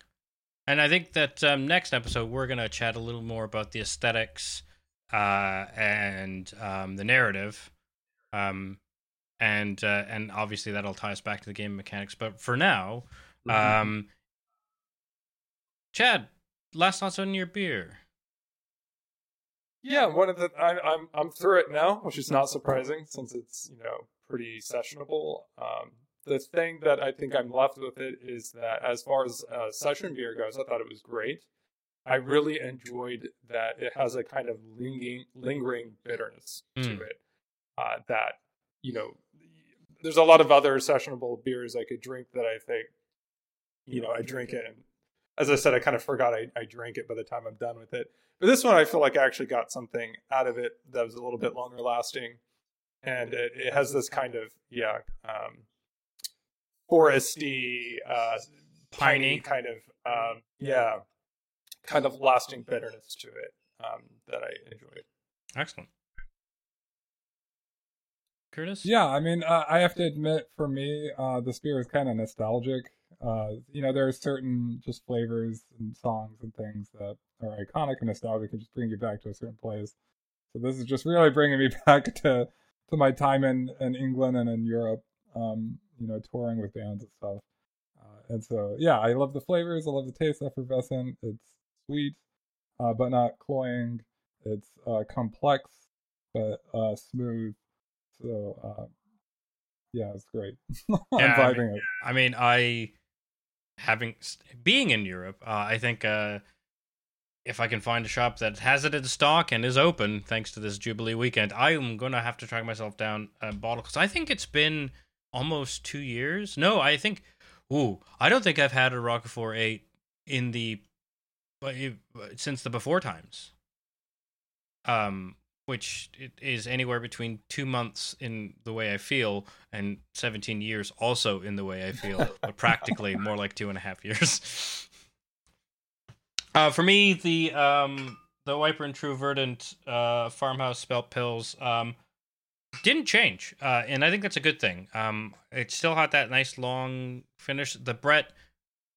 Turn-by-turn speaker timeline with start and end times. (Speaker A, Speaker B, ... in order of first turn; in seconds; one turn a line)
Speaker A: 0.7-7.7
Speaker A: 8.3-8.8
Speaker A: 9.4-14.1
Speaker A: 15.9-18.0
Speaker B: 19.8-31.4
Speaker B: 32.0-37.2
Speaker A: 36.8-37.0
Speaker B: 37.8-42.9
Speaker B: 43.9-44.8
Speaker B: 45.4-52.4
Speaker B: 53.0-55.6
Speaker B: 56.9-61.0
Speaker A: 58.9-59.4
Speaker B: 61.8-65.0
Speaker A: 65.5-65.9
Speaker A: 68.5-68.9
Speaker C: 68.8-79.9
Speaker C: 80.5-87.4
Speaker C: 88.0-92.2
Speaker C: 92.8-95.7
Speaker C: 96.3-97.6
Speaker C: 98.1-98.9
Speaker C: 99.9-101.9
Speaker A: 101.2-102.9
Speaker A: 103.8-106.4
Speaker A: 107.4-120.8
Speaker A: 121.6-123.5
Speaker A: 124.8-134.9
Speaker A: 136.6-141.9
Speaker A: 142.8-148.3